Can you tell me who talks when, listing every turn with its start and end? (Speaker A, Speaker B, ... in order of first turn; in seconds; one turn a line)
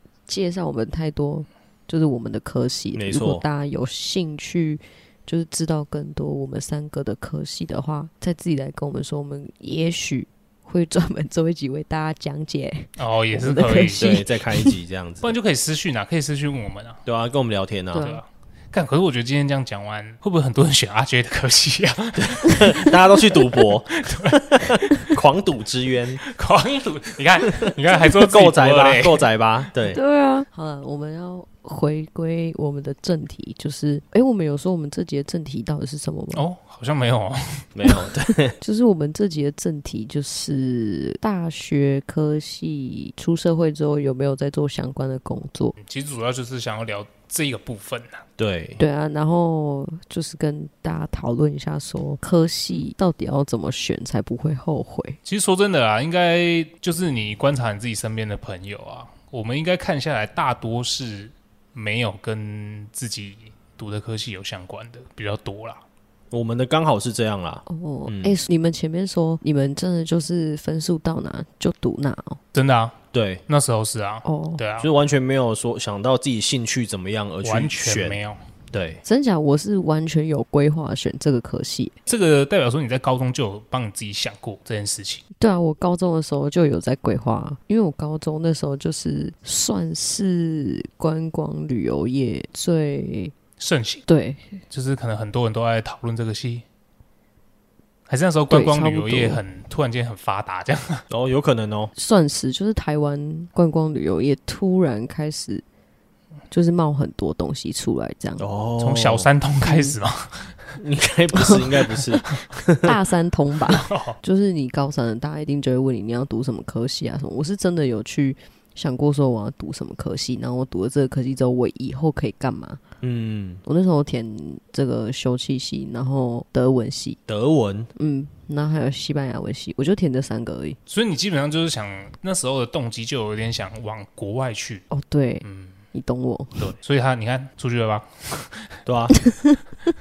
Speaker A: 0.3-14.8
Speaker B: 3.0-3.4
Speaker C: 13.0-14.0
Speaker B: 14.0-15.3
Speaker C: 15.2-17.0
Speaker B: 17.1-18.1
Speaker A: 17.9-18.2
Speaker C: 18.0-22.9
Speaker B: 22.2-26.2
Speaker C: 24.0-24.4
Speaker C: 26.3-29.3
Speaker B: 28.0-30.0
Speaker A: 29.9-36.5
Speaker C: 36.3-37.7
Speaker B: 37.8-38.6
Speaker A: 38.6-45.8
Speaker C: 45.8-48.2
Speaker B: 48.4-48.8
Speaker A: 48.8-55.2
Speaker C: 55.2-65.8
Speaker B: 66.3-68.3
Speaker A: 67.7-72.4
Speaker C: 72.5-73.0
Speaker B: 73.1-73.4
Speaker C: 73.5-74.9
Speaker A: 74.2-74.6
Speaker B: 74.8-78.2
Speaker C: 77.4-78.4
Speaker B: 78.7-79.0
Speaker A: 79.0-82.0
Speaker C: 82.1-85.2
Speaker A: 85.4-93.3
Speaker C: 93.6-94.0
Speaker A: 94.1-94.6
Speaker C: 94.7-96.7
Speaker C: 98.1-101.0
Speaker A: 98.5-99.4
Speaker B: 101.1-101.9
Speaker A: 102.0-105.6
Speaker A: 106.5-108.4
Speaker B: 108.4-109.3
Speaker C: 108.8-110.7
Speaker A: 109.6-110.0
Speaker B: 110.8-113.0
Speaker A: 111.3-111.7
Speaker A: 112.8-122.8
Speaker C: 113.7-114.2
Speaker B: 123.0-123.6
Speaker A: 123.7-127.2
Speaker B: 127.3-127.9
Speaker A: 128.0-130.8
Speaker C: 130.9-134.8
Speaker A: 134.9-136.7
Speaker C: 135.4-135.8
Speaker C: 136.6-138.8
Speaker B: 138.9-139.2
Speaker A: 139.3-139.6